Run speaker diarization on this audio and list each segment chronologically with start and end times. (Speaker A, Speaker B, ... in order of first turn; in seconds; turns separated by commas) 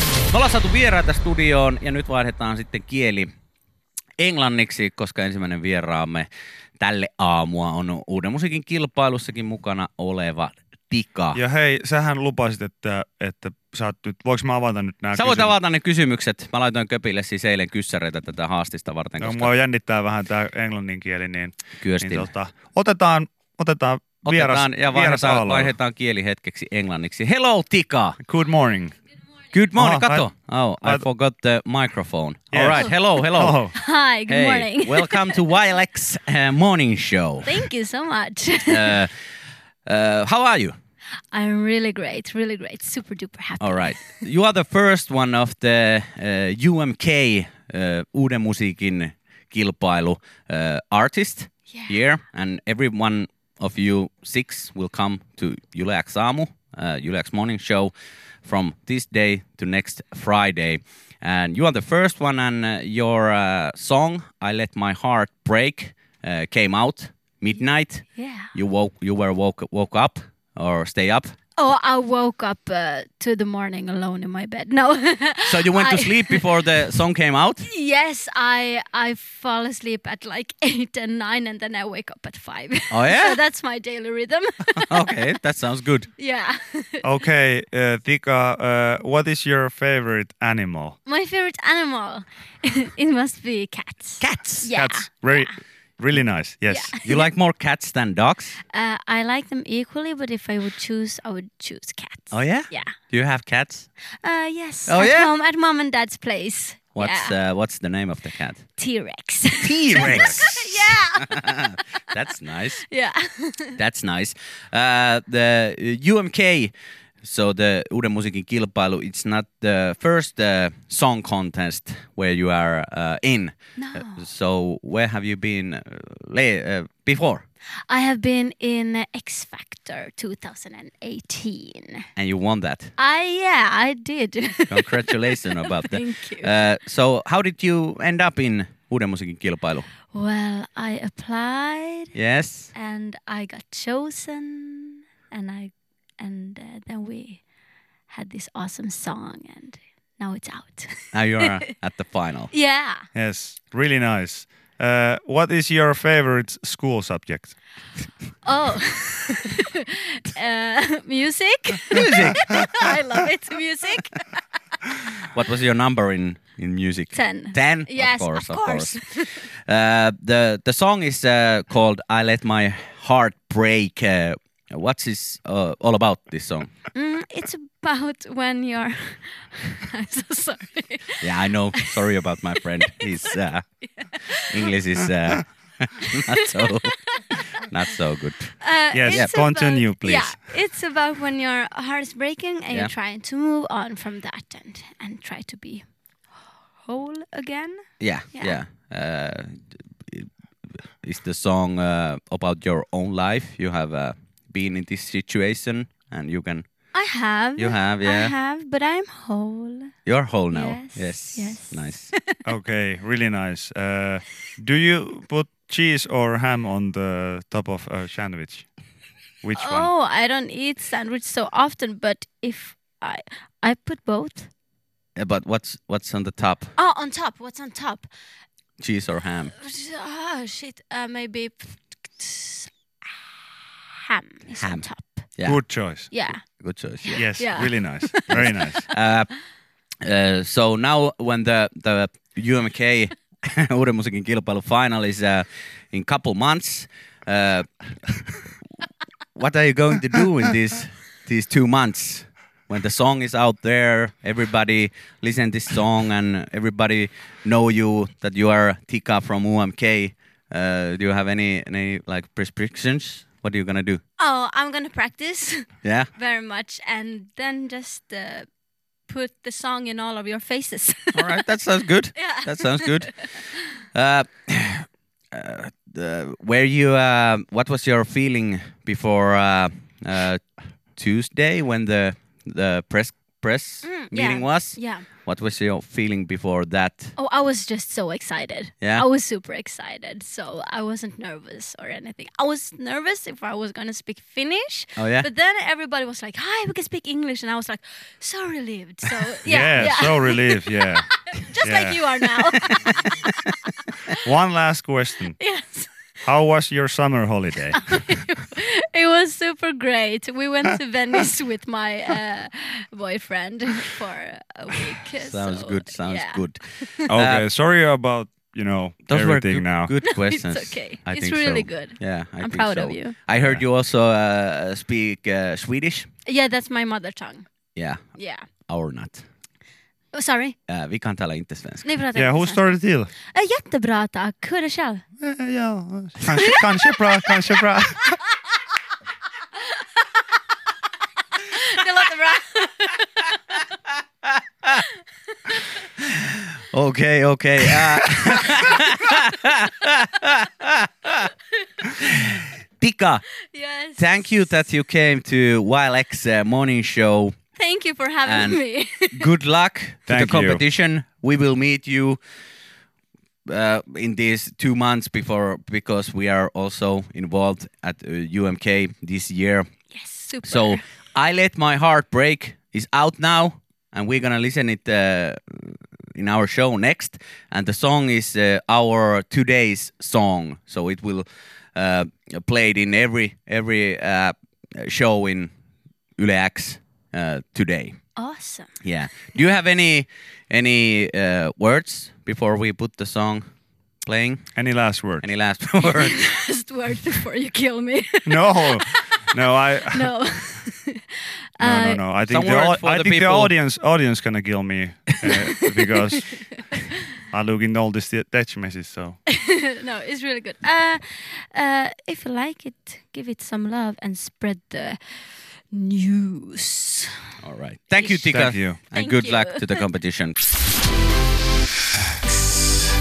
Speaker A: 0.3-3.3, Speaker A: 4.2-6.3, Speaker A: 6.8-11.4, Speaker B: 11.3-15.5, Speaker A: 15.2-19.5, Speaker B: 19.2-25.8, Speaker A: 21.8-22.3, Speaker A: 24.2-28.2, Speaker B: 28.2-28.9, Speaker A: 29.5-33.6, Speaker B: 29.8-30.3, Speaker B: 32.5-33.8, Speaker C: 32.8-33.2, Speaker C: 33.7-35.4, Speaker A: 34.2-37.6, Speaker C: 37.4-39.0, Speaker A: 38.7-39.1, Speaker A: 39.9-40.8, Speaker C: 41.3-44.1, Speaker A: 43.6-57.9, Speaker C: 51.7-52.0, Speaker A: 58.4-71.3, Speaker C: 68.2-68.5, Speaker C: 71.6-76.6, Speaker A: 75.5-77.7, Speaker C: 77.6-85.1, Speaker A: 82.9-83.4, Speaker A: 84.9-86.1, Speaker C: 86.2-87.1, Speaker B: 87.0-91.0, Speaker C: 91.0-95.6, Speaker A: 94.2-94.7, Speaker B: 94.7-97.0, Speaker C: 96.7-97.3, Speaker A: 97.0-98.6, Speaker C: 98.7-103.0, Speaker A: 102.3-103.9, Speaker C: 104.2-107.4, Speaker A: 104.9-105.3, Speaker A: 107.0-108.7, Speaker C: 108.8-111.8, Speaker A: 109.6-112.9, Speaker B: 110.0-110.4, Speaker C: 112.8-113.8, Speaker A: 113.8-127.5, Speaker C: 123.8-124.2, Speaker C: 127.9-132.1, Speaker A: 132.2-132.9, Speaker C: 133.0-136.5, Speaker A: 134.7-139.9, Speaker C: 140.1-142.1, Speaker A: 142.2-142.7, Speaker C: 142.7-147.4, Speaker C: 148.1-151.6, Speaker A: 151.1-152.5, Speaker C: 152.5-153.1, Speaker B: 153.1-157.6, Speaker C: 158.4-164.4, Speaker A: 161.9-162.5, Speaker A: 165.3-169.1, Speaker C: 167.1-169.5, Speaker A: 169.7-176.7, Speaker C: 176.9-182.1, Speaker A: 181.2-183.9, Speaker C: 182.8-184.7, Speaker A: 184.5-189.3, Speaker C: 186.6-187.4, Speaker C: 188.6-195.9, Speaker B: 188.9-190.4, Speaker C: 196.8-198.6, Speaker A: 198.0-200.3, Speaker A: 201.0-206.7, Speaker C: 206.9-209.9, Speaker A: 207.6-208.3, Speaker A: 210.1-212.1, Speaker C: 210.5-212.4, Speaker B: 212.4-218.7, Speaker B: 219.4-219.9, Speaker C: 219.6-224.5, Speaker A: 225.2-226.7, Speaker C: 226.8-228.1, Speaker A: 228.8-229.5, Speaker C: 229.6-233.1, Speaker C: 233.9-235.3, Speaker A: 234.6-235.6, Speaker B: 235.4-236.1, Speaker C: 236.1-236.5, Speaker A: 236.3-237.3, Speaker C: 237.0-238.5, Speaker B: 237.2-238.9, Speaker A: 238.3-239.3, Speaker A: 240.0-248.4, Speaker A: 249.3-264.0, Speaker C: 264.2-268.5, Speaker A: 265.8-266.1, Speaker C: 269.1-271.4, Speaker A: 271.1-273.4, Speaker C: 272.1-273.6, Speaker A: 273.9-287.1, Speaker C: 283.8-285.1, Speaker C: 287.2-303.8, Speaker A: 288.8-289.1, Speaker A: 295.0-295.3, Speaker B: 299.5-301.1, Speaker B: 301.6-302.0, Speaker B: 304.2-305.4, Speaker C: 305.4-306.1, Speaker B: 306.2-308.0, Speaker C: 307.8-317.1, Speaker A: 315.2-317.5, Speaker B: 317.1-319.9, Speaker A: 319.1-326.1, Speaker C: 320.0-323.2, Speaker C: 326.2-327.5, Speaker A: 327.8-328.0, Speaker C: 328.1-328.5, Speaker A: 328.7-329.3, Speaker C: 330.1-330.6, Speaker A: 330.7-331.9, Speaker C: 331.8-335.0, Speaker B: 332.2-333.1, Speaker B: 335.2-338.2, Speaker C: 341.4-343.7, Speaker A: 346.0-351.3, Speaker A: 352.0-353.3, Speaker C: 353.5-354.3, Speaker A: 354.0-357.4, Speaker C: 357.6-359.3, Speaker A: 358.3-362.2, Speaker B: 360.1-360.6, Speaker A: 363.5-369.7, Speaker C: 369.9-370.8, Speaker A: 370.4-385.5, Speaker A: 386.2-388.0, Speaker C: 388.1-388.8, Speaker A: 388.8-393.5, Speaker A: 394.0-394.5, Speaker B: 394.6-395.3, Speaker A: 395.2-396.2, Speaker C: 395.9-399.3, Speaker B: 398.3-400.1, Speaker C: 399.9-402.0, Speaker B: 401.6-409.2, Speaker A: 402.3-403.5, Speaker C: 406.3-406.6, Speaker C: 409.3-417.2, Speaker A: 417.4-420.4, Speaker C: 417.9-418.3, Speaker B: 418.3-418.8, Speaker C: 418.9-419.9